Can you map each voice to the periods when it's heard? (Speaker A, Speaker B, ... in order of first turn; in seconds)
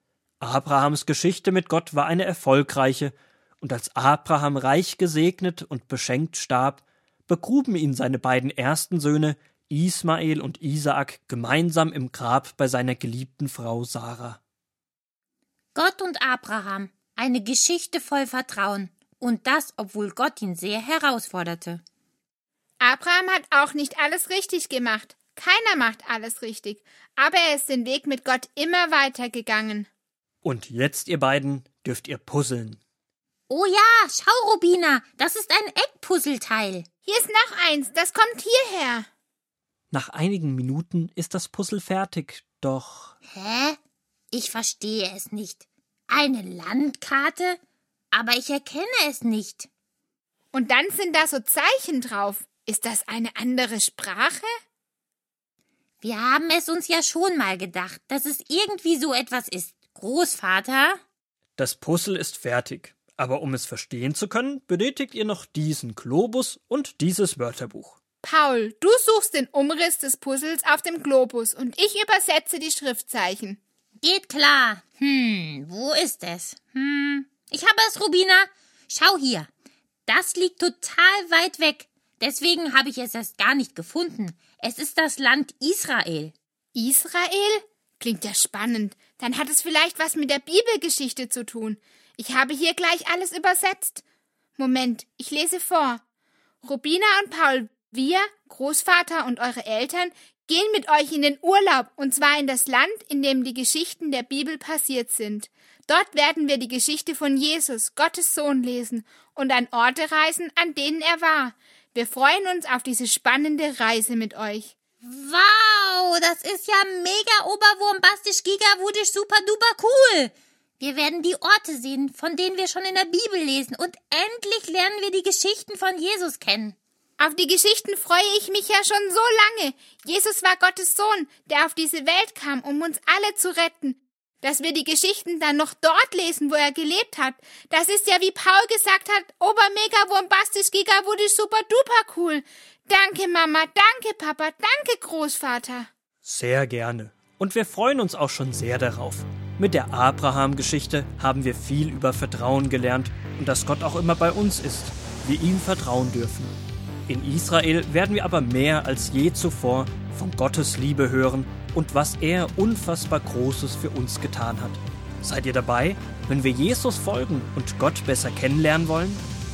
Speaker A: 0.4-14.4, 30.4-32.8, 39.9-43.1, 61.6-68.0, 146.2-156.5, 157.1-169.2
Speaker B: 15.7-21.8, 33.5-36.9, 43.3-43.8, 44.3-47.6, 48.1-49.7, 56.0-61.0, 74.0-79.5, 80.1-86.3, 115.0-126.8
Speaker C: 22.8-29.9, 37.0-39.1, 50.5-54.5, 68.2-73.6, 86.7-94.0, 94.6-96.0, 96.6-114.7, 127.2-145.9